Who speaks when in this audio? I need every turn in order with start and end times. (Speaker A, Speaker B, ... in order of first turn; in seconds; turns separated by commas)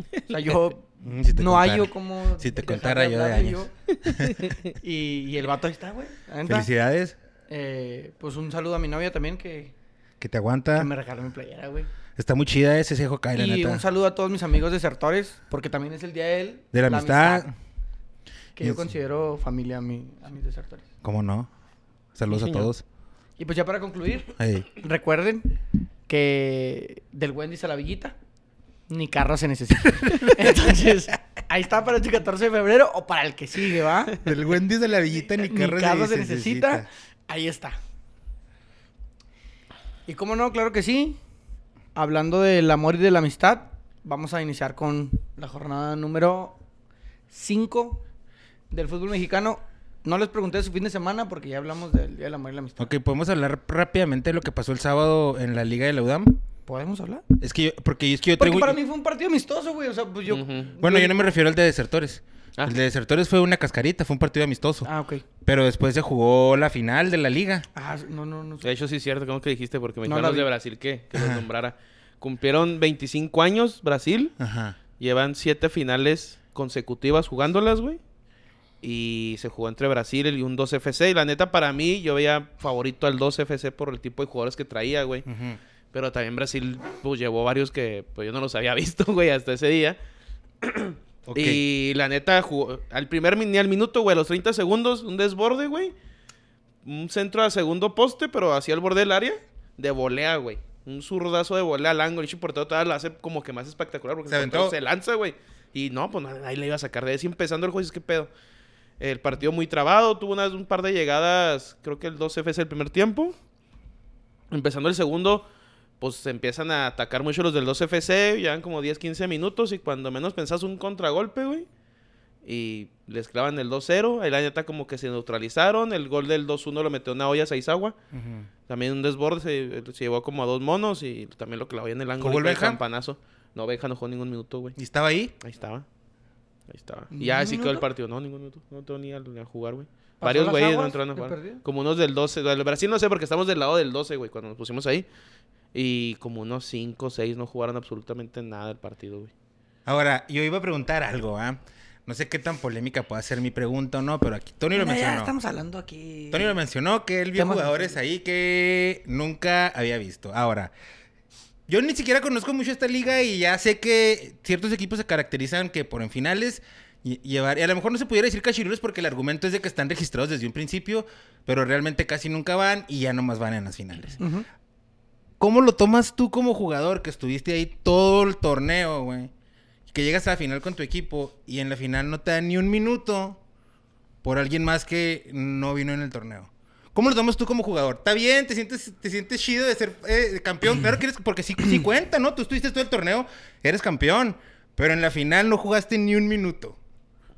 Speaker A: 0.2-3.7, Speaker B: 1.0-4.4, Speaker C: 3.9-4.7, Speaker A: 4.7-6.7, Speaker B: 6.5-7.2, Speaker A: 7.5-9.7, Speaker B: 10.2-10.9, Speaker A: 10.8-11.9, Speaker B: 12.2-13.8, Speaker A: 13.3-17.4, Speaker B: 16.7-17.5, Speaker A: 18.6-20.8, Speaker B: 18.6-18.9, Speaker B: 21.0-21.5, Speaker B: 22.1-22.8, Speaker C: 22.3-22.7, Speaker A: 23.4-25.6, Speaker B: 24.4-24.7, Speaker A: 26.1-28.1, Speaker A: 28.9-34.1, Speaker B: 30.0-30.5, Speaker B: 34.2-36.8, Speaker A: 35.4-37.8, Speaker A: 40.1-41.2, Speaker A: 41.9-46.6, Speaker A: 47.3-48.0, Speaker A: 48.7-52.9, Speaker B: 52.8-56.4, Speaker A: 56.7-57.2, Speaker B: 57.4-58.8, Speaker A: 58.4-61.3, Speaker C: 60.3-60.7, Speaker B: 60.8-64.9, Speaker A: 64.8-65.2, Speaker B: 65.4-67.7, Speaker A: 67.7-68.7, Speaker C: 68.6-74.3, Speaker A: 70.0-70.5, Speaker B: 71.1-71.4, Speaker B: 74.4-74.8, Speaker C: 75.0-78.0, Speaker C: 78.8-85.2, Speaker B: 85.3-85.6, Speaker C: 85.9-90.0, Speaker C: 90.6-95.9, Speaker B: 91.3-91.6, Speaker C: 96.8-108.3, Speaker B: 104.3-104.8, Speaker C: 109.0-113.3, Speaker C: 114.5-115.5, Speaker C: 116.0-121.7, Speaker C: 122.4-127.9, Speaker B: 128.1-128.5, Speaker C: 128.7-134.8, Speaker B: 132.2-132.8, Speaker B: 134.8-135.3, Speaker C: 135.4-135.8, Speaker C: 136.7-145.1, Speaker A: 137.1-137.8, Speaker A: 140.2-141.6, Speaker C: 145.7-149.3, Speaker B: 149.8-155.3, Speaker A: 154.7-156.6, Speaker B: 156.3-160.7, Speaker A: 157.3-157.9, Speaker B: 161.7-174.2, Speaker A: 174.2-174.4, Speaker B: 175.4-179.3, Speaker B: 179.9-183.4, Speaker B: 184.2-196.8